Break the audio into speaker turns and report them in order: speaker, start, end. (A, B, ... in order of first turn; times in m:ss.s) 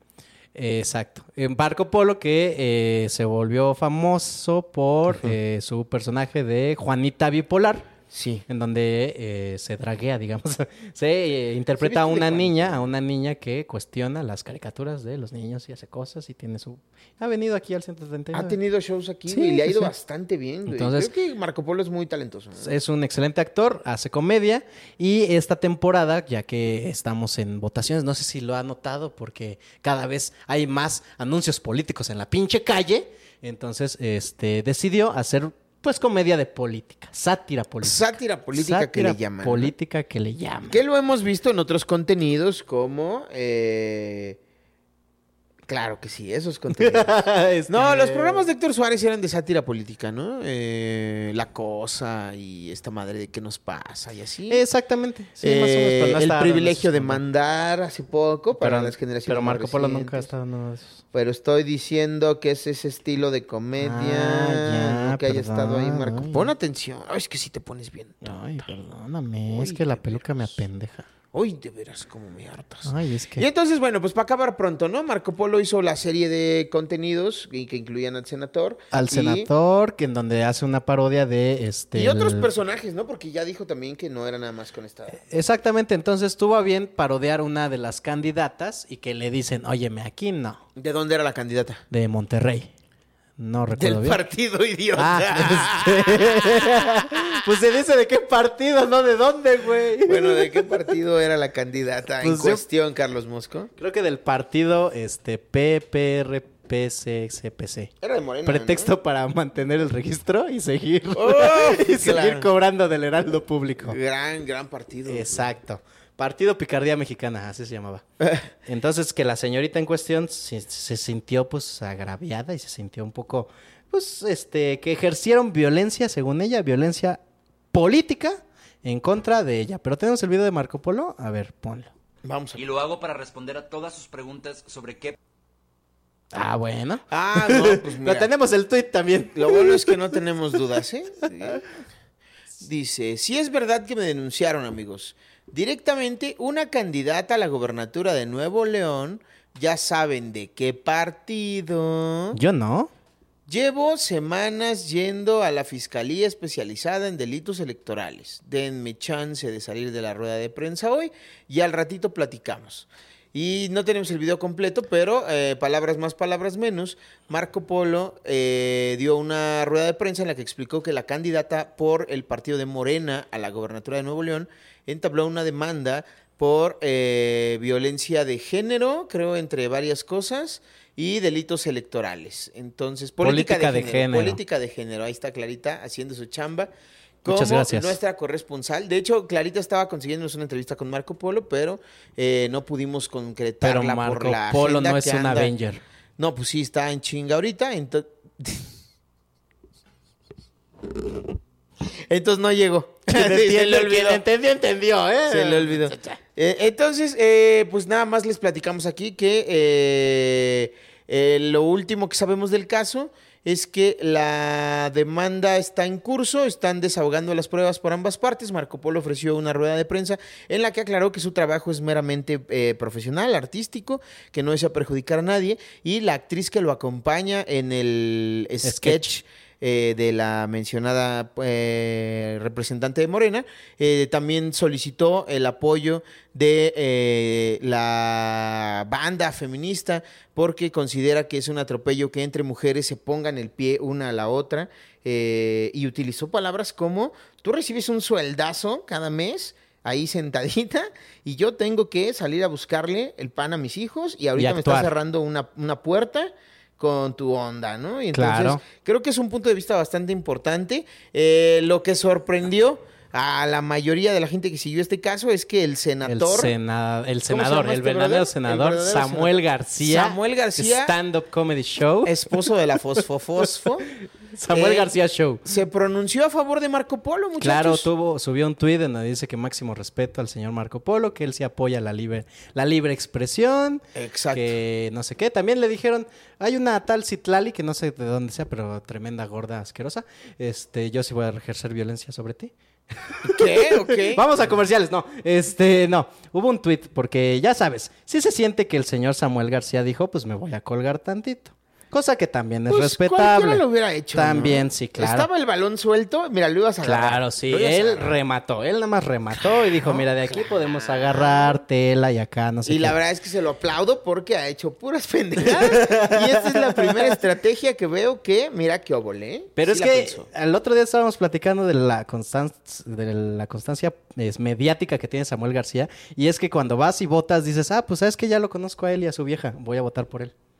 0:00.5-0:07.9 A
0:05.1-0:05.3 B
0:08.1-0:08.4 B
0:08.5-0:18.6 A
0:11.8-0:12.8 B
0:18.3-0:22.7 B
0:19.3-0:19.9 A
0:20.7-0:21.1 A
0:22.6-0:40.8 A
0:37.8-0:39.7 B
0:40.7-0:44.4 B
0:45.7-0:47.2 B
0:46.7-0:48.5 A
0:47.7-0:54.6 B
0:54.5-0:57.2 A
0:55.4-1:00.3 B
0:58.6-1:01.0 A
1:01.1-1:08.7 B
1:03.8-1:06.5 A
1:08.2-1:11.0 A
1:09.5-1:10.6 B
1:11.3-1:19.5 B
1:12.8-1:13.4 A
1:18.9-1:22.5 A
1:21.9-1:25.2 B
1:25.1-1:30.6 A
1:30.8-1:31.8 B
1:31.9-1:32.7 A
1:33.4-1:34.2 A
1:33.7-1:37.2 B
1:35.0-1:40.5 A
1:40.0-1:43.7 B
1:42.2-1:42.6 A
1:43.8-1:47.9 A
1:48.0-1:48.9 B
1:48.4-1:54.0 A
1:51.1-1:52.5 B
1:53.8-1:55.5 B
1:55.1-1:58.0 A
1:58.6-2:07.2 A
2:07.7-2:11.9 A
2:12.2-2:12.6 B
2:12.5-2:15.2 C
2:16.3-2:20.0 A
2:17.1-2:18.3 B
2:19.3-2:21.6 B
2:22.6-2:32.4 B
2:32.3-2:32.9 A
2:33.5-3:06.7 B
3:03.2-3:04.4 A
3:07.2-3:15.5 B
3:07.3-3:08.0 A
3:13.6-3:15.8 A
3:16.2-3:18.7 B
3:22.0-3:24.2 B
3:23.1-3:26.2 A
3:25.3-4:26.5 B
3:48.6-3:49.1 A
4:14.4-4:14.9 A
4:18.1-4:18.6 A
4:26.0-4:32.4 A
4:27.3-4:31.0 B
4:32.0-4:33.9 B
4:34.3-4:35.4 A
4:34.5-4:34.9 B
4:35.4-4:37.9 B
4:37.4-4:52.5 A
4:43.9-4:44.5 B
4:53.0-5:03.6 A
4:53.3-4:54.3 B
5:02.7-5:08.1 B
5:04.1-5:05.3 A
5:06.8-5:13.0 A
5:09.3-5:11.6 B
5:12.6-5:20.3 B
5:15.6-5:17.1 A
5:19.6-5:30.3 A